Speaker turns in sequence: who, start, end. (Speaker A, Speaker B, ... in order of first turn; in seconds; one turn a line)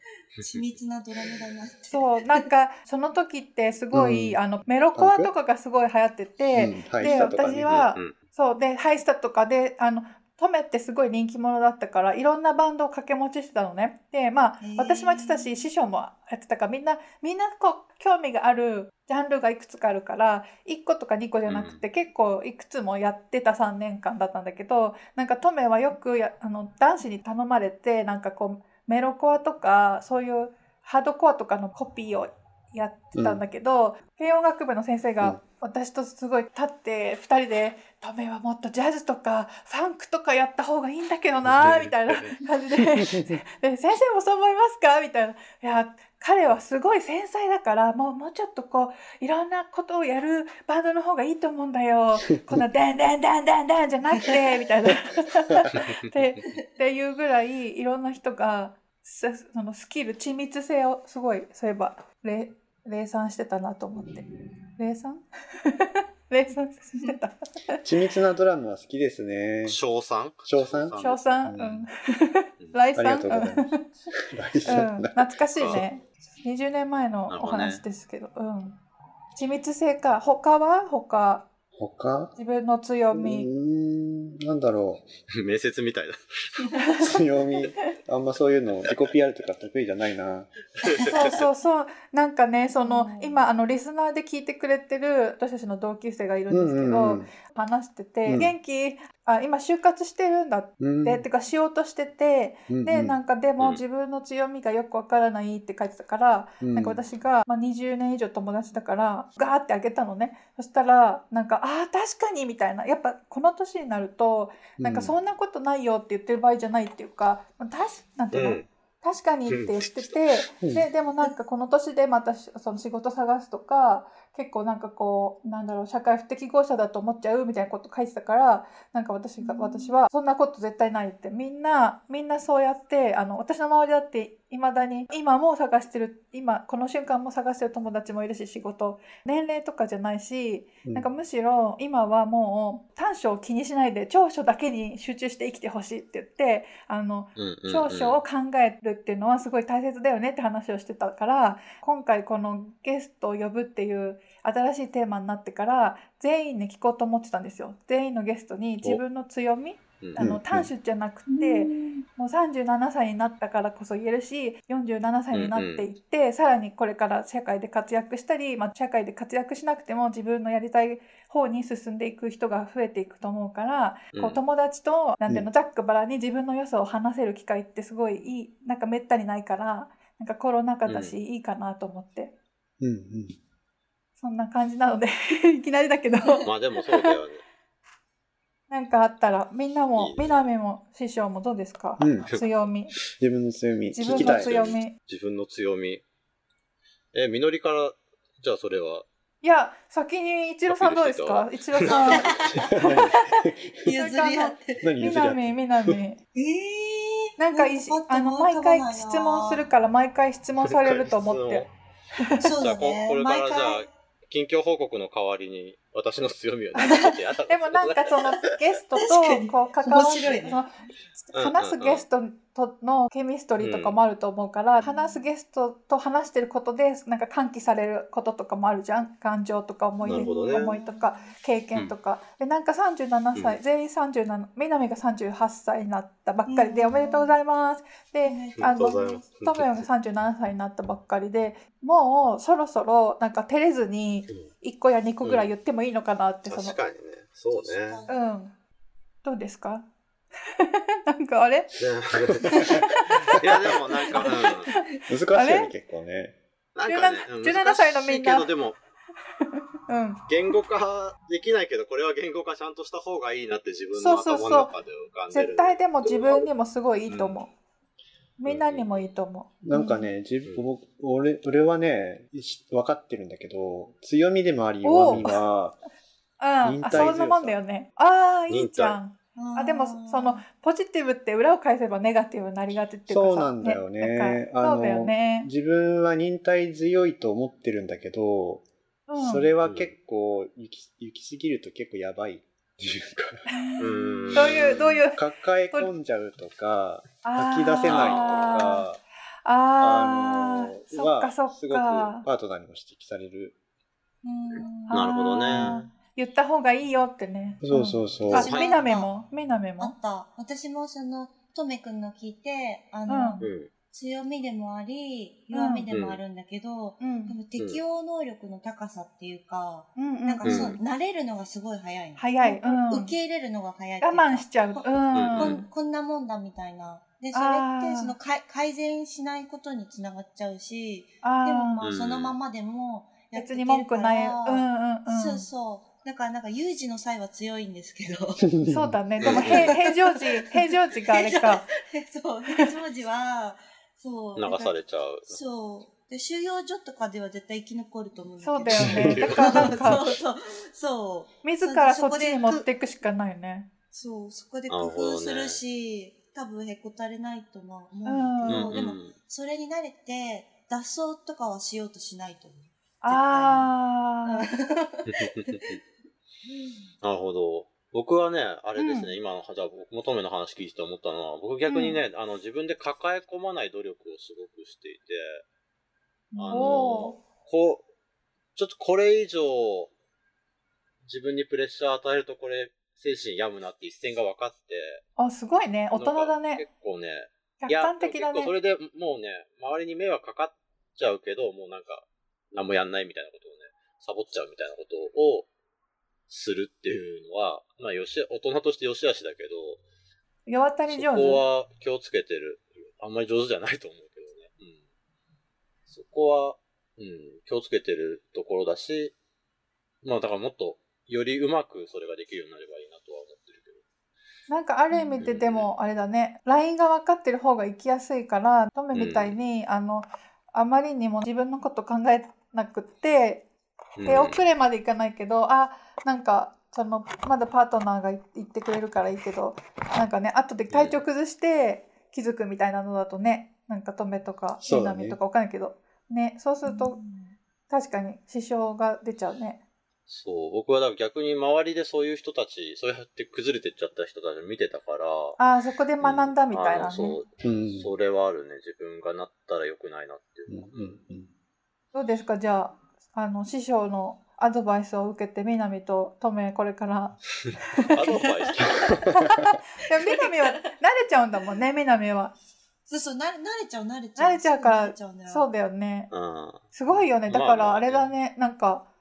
Speaker A: 0.4-2.4
Speaker B: 0.4-0.7
Speaker C: 1.9-67.8
Speaker D: 3.9-4.4
Speaker D: 5.0-5.3
Speaker D: 6.5-7.9
Speaker B: 7.7-8.1
Speaker A: 14.6-15.6
Speaker B: 21.4-21.8
Speaker D: 33.1-33.4
Speaker B: 41.5-42.4
Speaker D: 42.8-43.4
Speaker D: 52.2-52.6
Speaker B: 55.7-56.1
Speaker D: 67.8-69.8
Speaker B: 69.7-71.6
Speaker D: 70.5-71.9
Speaker C: 71.0-73.8
Speaker D: 73.0-73.8
Speaker D: 74.3-75.8
Speaker C: 74.7-78.8
Speaker B: 75.6-75.8
Speaker B: 77.3-77.8
Speaker C: 79.3-81.5
Speaker D: 81.8-82.3
Speaker C: 82.4-83.5
Speaker D: 83.1-85.0
Speaker B: 85.4-86.7
Speaker C: 86.8-87.1
Speaker D: 87.0-90.5
Speaker B: 90.8-91.4
Speaker C: 91.1-182.3
Speaker A: 92.8-93.5
Speaker D: 96.5-97.3
Speaker D: 98.3-98.5
Speaker D: 100.8-101.2
Speaker D: 102.7-103.2
Speaker D: 106.6-107.0
Speaker D: 114.8-115.2
Speaker B: 118.3-118.7
Speaker B: 119.5-120.4
Speaker D: 120.6-120.9
Speaker A: 129.4-129.9
Speaker B: 147.4-148.2
Speaker D: 160.2-160.7
Speaker A: 161.3-162.1
Speaker B: 165.3-165.9
Speaker B: 174.1-174.4
Speaker B: 180.9-181.2
Speaker D: 182.8-183.4
Speaker C: 184.2-186.6
Speaker B: 186.4-187.4
Speaker C: 188.7-192.9
Speaker B: 189.9-190.5
Speaker D: 192.0-192.3
Speaker B: 192.3-193.0
Speaker D: 193.2-194.8
Speaker C: 193.9-194.9
Speaker B: 194.1-196.0
Speaker B: 197.1-199.1
Speaker C: 199.4-202.3
Speaker B: 200.7-203.1
Speaker A: 201.9-202.4
Speaker D: 202.8-203.7
Speaker A: 203.8-204.8
Speaker C: 204.0-206.2
Speaker D: 204.8-206.0
Speaker A: 206.3-209.7
Speaker C: 207.4-211.7
Speaker B: 210.7-211.7
Speaker A: 212.4-213.9
Speaker B: 212.6-218.5
Speaker C: 216.8-246.8
Speaker A: 219.0-220.6
Speaker B: 220.1-220.4
Speaker B: 221.3-222.1
Speaker B: 223.6-224.0
Speaker A: 224.8-225.3
Speaker A: 230.0-231.3
Speaker B: 230.0-230.8
Speaker A: 236.5-237.3
Speaker A: 238.2-239.2
Speaker B: 238.6-239.9
Speaker B: 245.2-245.5
Speaker B: 246.5-248.0
Speaker A: 247.5-248.2
Speaker C: 248.1-248.5
Speaker C: 249.2-249.9
Speaker C: 250.6-251.7
Speaker B: 251.8-254.7
Speaker C: 252.5-253.1
Speaker C: 254.1-255.7
Speaker D: 255.1-256.4
Speaker B: 256.8-258.8
Speaker C: 256.9-258.5
Speaker C: 259.9-260.2
Speaker B: 260.3-266.5
Speaker C: 263.9-264.7
Speaker C: 265.3-267.5
Speaker B: 267.1-267.4
Speaker C: 268.4-270.0
Speaker B: 268.4-269.1
Speaker D: 269.6-275.8
Speaker C: 274.8-275.4
Speaker C: 276.4-285.5
Speaker D: 276.6-277.6
Speaker B: 278.5-279.0
Speaker A: 279.4-280.4
Speaker D: 283.1-293.4
Speaker C: 289.1-289.5
Speaker B: 289.6-289.9
Speaker C: 293.5-295.2
Speaker B: 293.8-295.0
Speaker D: 294.4-299.0
Speaker C: 297.2-298.9
Speaker B: 297.8-298.4
Speaker C: 299.4-302.3
Speaker D: 299.8-303.6
Speaker A: 304.2-305.0
Speaker B: 304.6-305.9
Speaker C: 304.7-309.9
Speaker D: 305.5-305.9
Speaker D: 307.6-308.5
Speaker A: 308.3-309.1
Speaker B: 308.3-308.8
Speaker A: 309.8-338.4
Speaker C: 313.1-313.5
Speaker B: 313.4-313.7
Speaker C: 315.5-315.9
Speaker B: 315.9-316.2
Speaker C: 317.0-317.4
Speaker B: 317.6-317.8
Speaker C: 320.0-320.7
Speaker B: 320.4-320.8
Speaker C: 322.2-323.2
Speaker C: 324.0-325.7
Speaker B: 325.1-325.6
Speaker C: 327.3-328.1
Speaker C: 331.2-331.8
Speaker B: 331.8-332.4
Speaker C: 333.4-335.5
Speaker D: 338.5-339.0
Speaker C: 338.7-341.7
Speaker B: 339.2-339.8
Speaker A: 339.3-344.8
Speaker B: 344.4-345.4
Speaker A: 345.3-352.7
Speaker C: 348.4-350.0
Speaker D: 348.8-349.8
Speaker B: 349.0-349.9
Speaker C: 351.4-353.7
Speaker A: 353.9-363.7
Speaker B: 354.7-355.6
Speaker C: 358.1-358.8
Speaker B: 358.5-359.1
Speaker C: 363.0-364.4
Speaker A: 364.3-365.6
Speaker B: 365.1-365.8
Speaker A: 366.5-366.9
Speaker B: 367.0-375.4
Speaker C: 368.8-369.1
Speaker C: 371.7-372.0
Speaker C: 376.3-377.2
Speaker B: 376.4-377.9
Speaker B: 378.6-379.9
Speaker B: 381.1-385.0
Speaker C: 385.2-386.6
Speaker B: 385.9-395.5
Speaker C: 387.6-388.5
Speaker B: 396.3-399.8
Speaker C: 400.5-401.4
Speaker B: 400.9-404.8
Speaker B: 405.9-409.1
Speaker B: 410.0-413.8
Speaker C: 414.5-423.4
Speaker A: 414.9-415.3
Speaker B: 415.2-415.7
Speaker B: 418.9-419.4
Speaker B: 424.0-424.4
Speaker C: 424.0-437.0
Speaker B: 430.7-431.0
Speaker D: 434.6-435.2
Speaker A: 436.6-437.4
Speaker C: 437.7-439.6
Speaker B: 440.1-445.4
Speaker C: 445.4-447.2
Speaker B: 446.0-451.0
Speaker D: 447.4-447.9
Speaker D: 450.5-451.3
Speaker C: 451.9-457.2
Speaker C: 457.7-458.2
Speaker B: 457.9-459.0
Speaker C: 459.2-462.4
Speaker A: 459.9-460.6
Speaker A: 462.9-465.5
Speaker C: 464.2-466.1
Speaker B: 466.1-468.1
Speaker C: 466.7-468.9